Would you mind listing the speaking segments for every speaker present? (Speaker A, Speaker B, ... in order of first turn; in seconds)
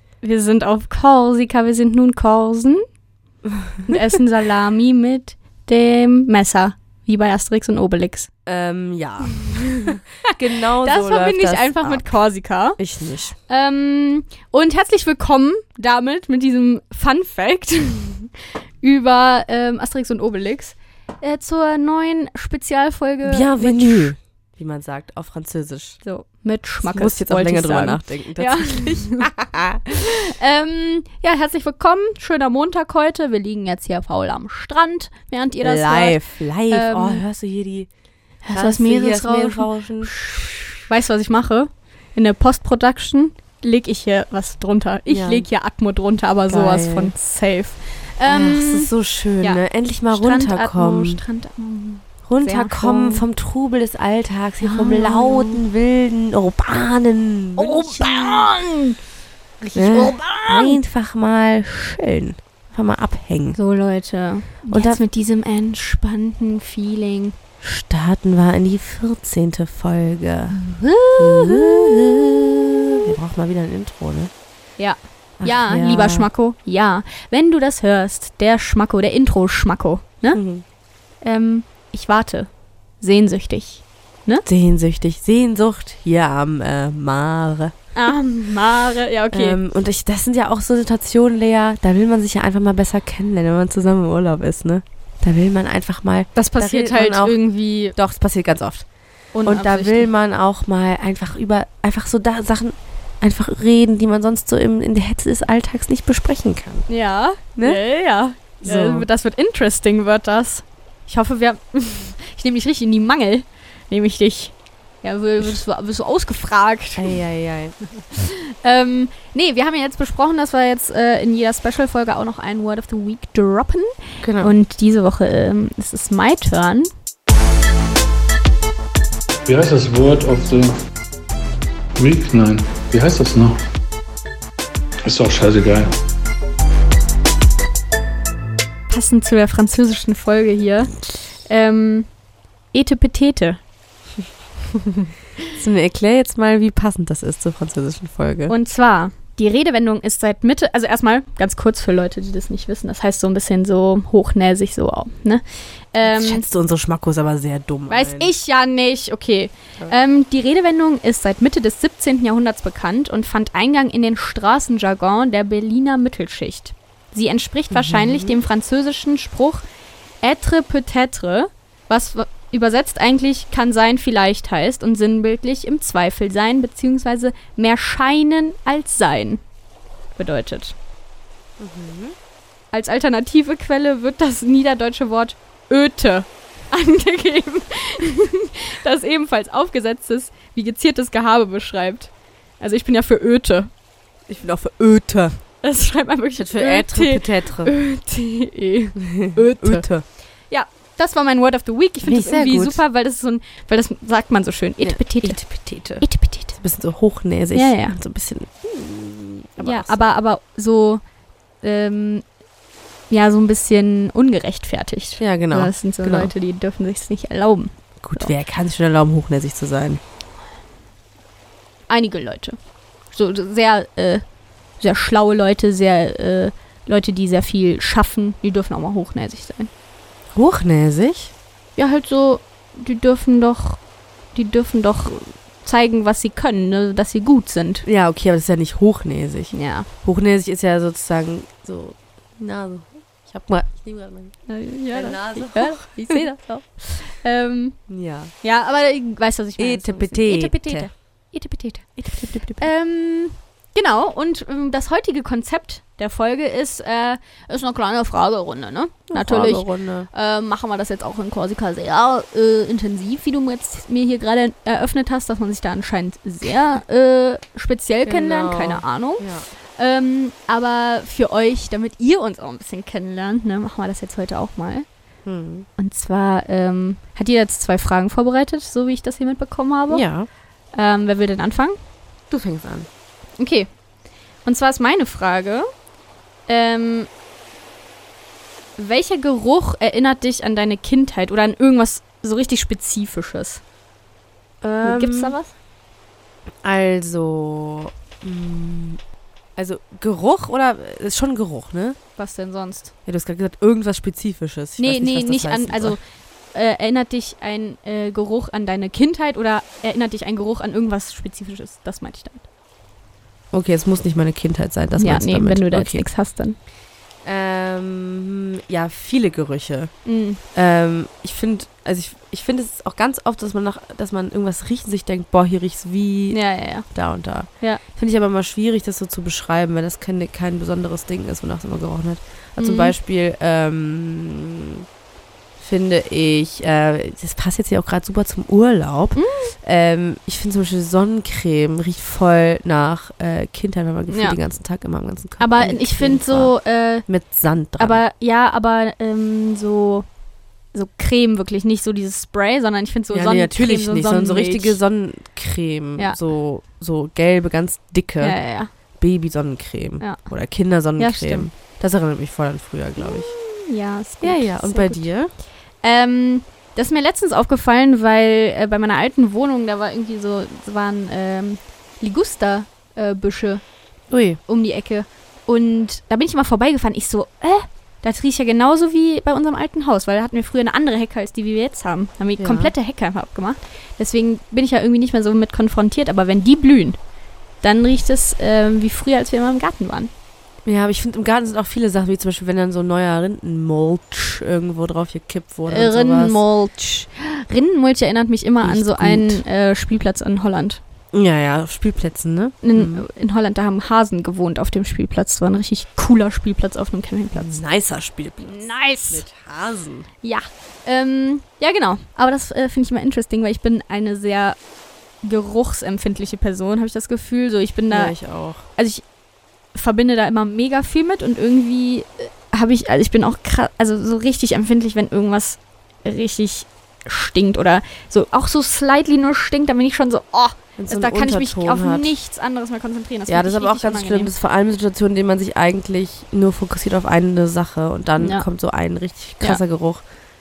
Speaker A: 0.2-2.8, 3.9-8.3, 9.3-12.8, 13.5-24.1, 26.0-29.3, 29.9-37.2, 38.5-48.9, 49.4-53.2, 54.6-55.6, 57.6-59.0, 59.6-60.8, 63.6-67.4, 70.6-73.0, 74.8-80.4, 81.2-84.5, 88.0-89.6, 96.3-97.9, 99.3-100.1, 106.9-117.2, 118.1-126.9, 138.9-142.1, 142.7-143.6, 148.5-156.4, 157.9-169.6, 170.2-179.4, 180.2-180.8, 182.7-193.7, 195.6-199.9, 200.5-205.5, 206.0-206.6, 207.5-208.0, 209.6-211.0, 211.6-212.2, 213.1-218.3, 221.9-222.6, 223.1-224.2, 224.8-229.7, 231.8-233.8, 234.3-237.8, 239.5-239.9, 244.5-247.9, 248.4-252.0, 252.6-274.9, 275.8-280.1, 280.7-281.8, 283.4-283.7, 284.4-285.7, 286.5-287.1, 288.8-293.6, 294.8-295.5, 302.2-302.9, 304.8-306.0, 306.5-312.5, 315.0-316.6, 320.1-320.4, 326.3-326.9, 332.6-332.9, 339.1-339.5, 344.1-344.4, 345.4-347.1, 347.8-350.1, 350.7-354.8, 358.2-358.7, 361.0-361.5, 363.0-365.1, 365.8-373.6, 374.5-387.0, 387.6-390.1, 395.7-400.8, 402.6-407.6, 408.4-409.2, 410.2-414.6, 415.2-418.2, 418.8-419.0, 419.8-434.4, 438.2-438.5
Speaker B: 3.5-3.8, 8.5-12.1, 12.8-13.3, 23.2-26.0, 26.8-29.8, 35.6-37.9, 38.5-40.7, 45.1-45.5, 46.5-47.1, 48.2-51.2, 52.3-58.5, 59.8-63.6, 64.7-65.0, 67.6-70.6, 71.2-74.3, 75.4-76.3, 80.3-80.6, 84.5-87.7, 89.3-97.4, 98.0-98.9, 99.4-106.9, 107.6-107.8, 108.6-109.1, 117.0-117.8, 124.2-124.5, 145.5-148.5, 156.0-158.3, 167.7-168.4, 181.6-182.2, 194.3-195.4, 196.4-197.8, 199.0-200.1, 202.0-202.8, 204.8-210.2, 215.2-216.3, 218.0-220.0, 230.3-231.3, 237.8-244.4, 244.9-246.4, 247.9-248.3, 249.6-250.9, 252.0-252.7, 259.1-260.1, 268.1-269.5, 275.2-275.7, 279.9-280.3, 282.3-282.9, 294.6-295.4, 296.6-299.0, 299.6-302.0, 303.1-306.0, 313.5-316.1, 317.2-319.9, 320.6-334.8, 335.6-346.6, 347.1-348.0, 353.1-358.4, 359.0-363.3, 364.2-365.3, 374.1-374.4, 382.4-382.7, 390.6-396.4, 398.6-399.4, 401.1-403.1, 407.3-410.1, 417.9-418.7, 430.8-432.1, 433.3-440.0
Speaker C: 129.5-130.8, 132.0-133.6, 135.0-135.9